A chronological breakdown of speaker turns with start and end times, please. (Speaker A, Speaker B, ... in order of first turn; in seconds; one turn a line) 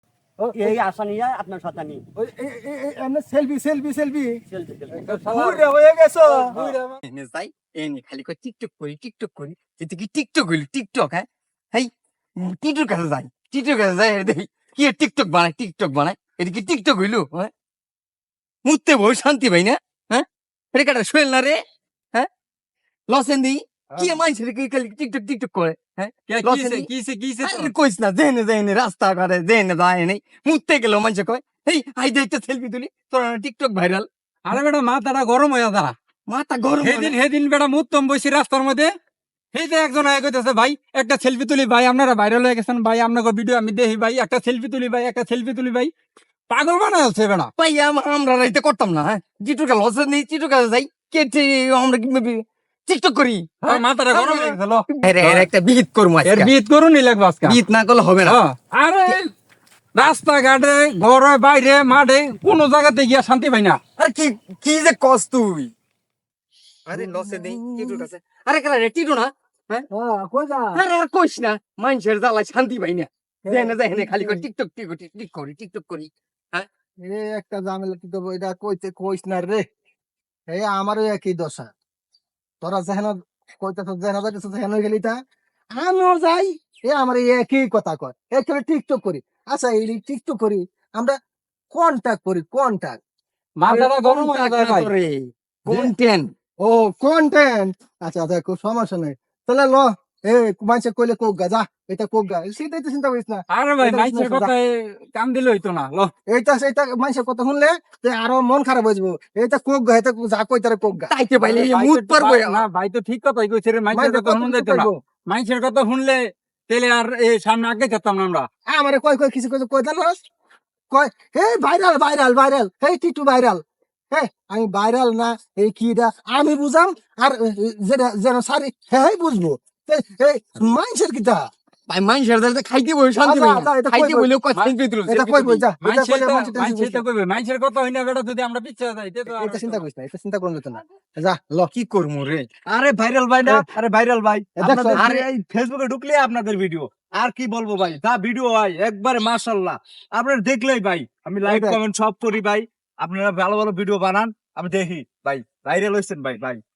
Speaker A: 0.4-0.8
Speaker B: 0.5-2.0
Speaker A: 2.2-4.4
Speaker B: 4.5-5.1
Speaker C: 4.9-5.7
Speaker A: 5.2-6.7
Speaker C: 6.2-7.0
Speaker D: 7.0-17.5
Speaker D: 18.6-21.6
Speaker D: 23.1-26.9
Speaker C: 26.3-27.7
Speaker D: 27.4-34.1
Speaker C: 34.5-35.9
Speaker D: 36.3-37.2
Speaker C: 36.8-38.9
Speaker C: 39.5-45.9
Speaker C: 46.5-47.5
Speaker D: 47.6-56.5
Speaker C: 53.6-55.5
Speaker C: 56.2-57.6
Speaker B: 57.5-58.3
Speaker D: 57.6-58.3
Speaker C: 58.2-59.3
Speaker C: 60.0-63.8
Speaker D: 64.0-65.7
Speaker D: 66.9-69.9
Speaker A: 66.9-68.1
Speaker A: 69.9-70.8
Speaker D: 70.7-76.7
Speaker A: 73.5-74.5
Speaker A: 77.0-79.7
Speaker A: 80.5-81.7
Speaker A: 82.6-85.2
Speaker A: 85.8-91.2
Speaker A: 91.7-93.0
Speaker C: 93.6-94.9
Speaker D: 93.7-96.2
Speaker B: 94.0-94.3
Speaker A: 95.7-95.9
Speaker A: 96.6-104.5
Speaker C: 103.5-106.1
Speaker A: 106.3-111.1
Speaker D: 111.1-112.6
Speaker C: 111.4-118.5
Speaker A: 113.9-115.0
Speaker A: 118.7-120.2
Speaker A: 120.9-131.5
Speaker D: 131.9-135.6
Speaker A: 133.2-134.3
Speaker C: 134.5-135.3
Speaker A: 135.1-137.0
Speaker C: 135.8-139.8
Speaker A: 139.3-141.7
Speaker D: 141.8-142.5
Speaker E: 142.7-156.6
Speaker A: 144.6-145.1
Speaker A: 151.4-151.8